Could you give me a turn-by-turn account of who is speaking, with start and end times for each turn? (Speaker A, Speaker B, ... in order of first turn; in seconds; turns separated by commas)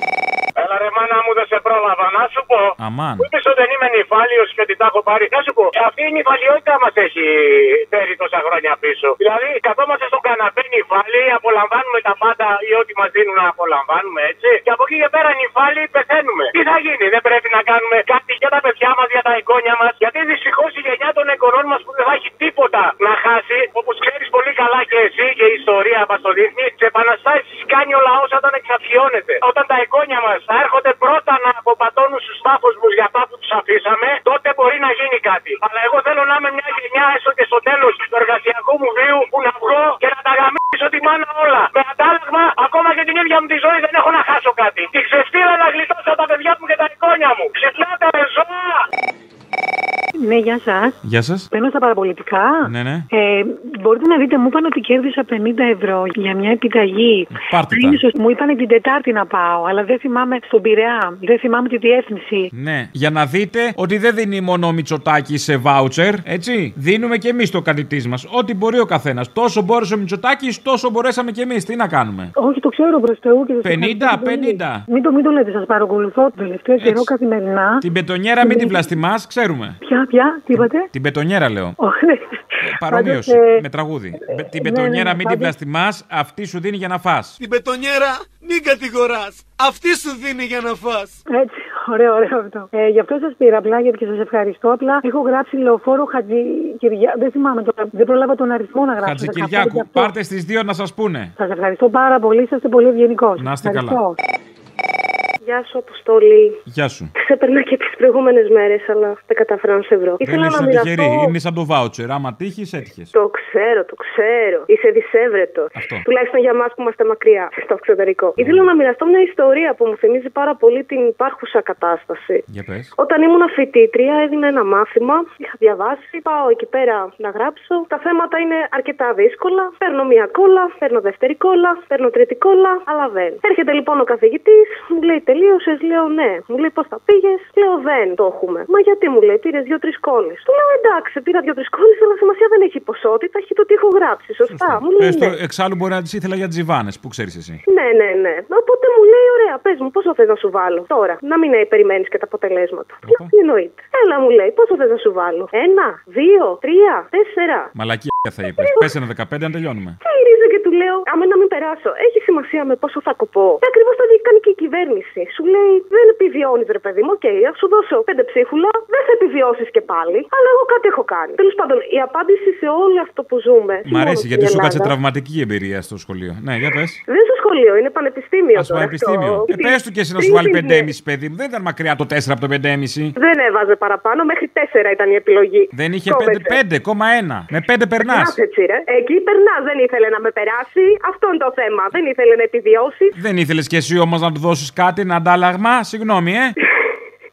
Speaker A: 0.6-48.8, Speaker B: 2.8-3.3, Speaker C: 50.2-51.0, Speaker B: 51.0-51.5, Speaker C: 51.5-62.5, Speaker B: 52.7-53.1, Speaker B: 57.3-58.0, Speaker B: 62.5-72.3, Speaker C: 72.4-77.8, Speaker B: 73.6-74.8, Speaker B: 76.8-77.1, Speaker B: 77.8-79.8, Speaker C: 78.4-78.9, Speaker C: 79.8-80.9, Speaker B: 80.5-81.8, Speaker C: 81.8-83.6, Speaker B: 82.7-87.4, Speaker C: 84.5-85.5, Speaker D: 87.4-91.1, Speaker C: 91.3-100.1, Speaker B: 99.0-101.3, Speaker C: 101.4-104.2, Speaker B: 103.4-104.0, Speaker E: 105.4-106.6, Speaker B: 106.7-107.1, Speaker E: 107.2-111.3, Speaker B: 110.2-113.1, Speaker E: 113.1-122.4, Speaker B: 115.8-116.0, Speaker B: 118.4-118.6, Speaker B: 122.5-122.9, Speaker E: 123.0-145.4, Speaker B: 144.5-147.6, Speaker E: 147.7-157.7, Speaker B: 157.8-160.0, Speaker E: 158.6-158.9, Speaker E: 160.0-174.9, Speaker B: 173.9-177.0, Speaker E: 177.1-180.9, Speaker B: 178.5-183.2, Speaker E: 183.2-186.6, Speaker B: 185.7-188.4, Speaker E: 188.0-193.1, Speaker B: 193.2-196.6